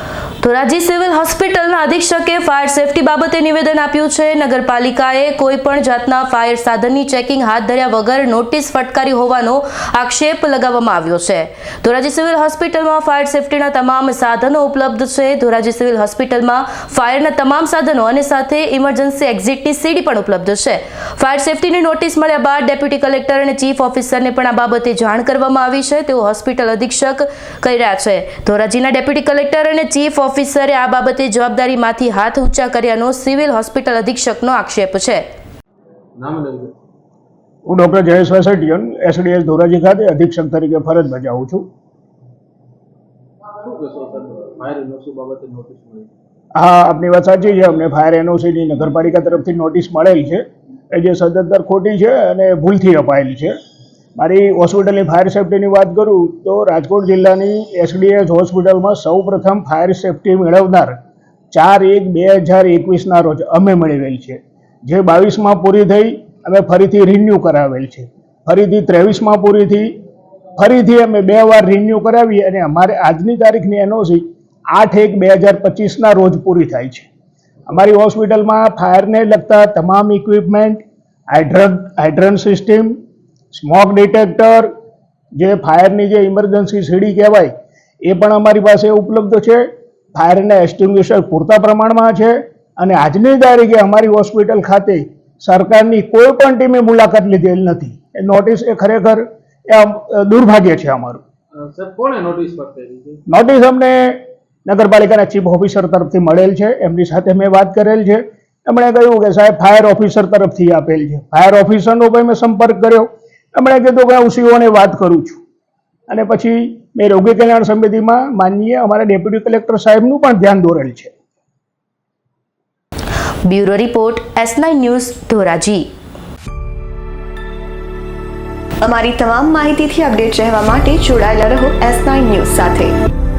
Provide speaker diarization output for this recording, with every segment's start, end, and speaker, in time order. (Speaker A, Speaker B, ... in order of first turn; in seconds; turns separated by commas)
Speaker A: 0.4-35.2, Speaker B: 36.2-36.8, Speaker C: 37.6-41.7, Speaker B: 43.6-46.1, Speaker C: 46.6-53.5, Speaker C: 54.2-61.0, Speaker C: 61.5-70.0, Speaker C: 70.6-77.1, Speaker C: 77.7-83.0, Speaker C: 83.5-84.7, Speaker C: 85.4-87.5, Speaker C: 88.0-101.2, Speaker B: 101.5-103.2, Speaker C: 103.3-115.4, Speaker C: 116.1-121.1, Speaker A: 123.5-125.8, Speaker D: 128.8-132.9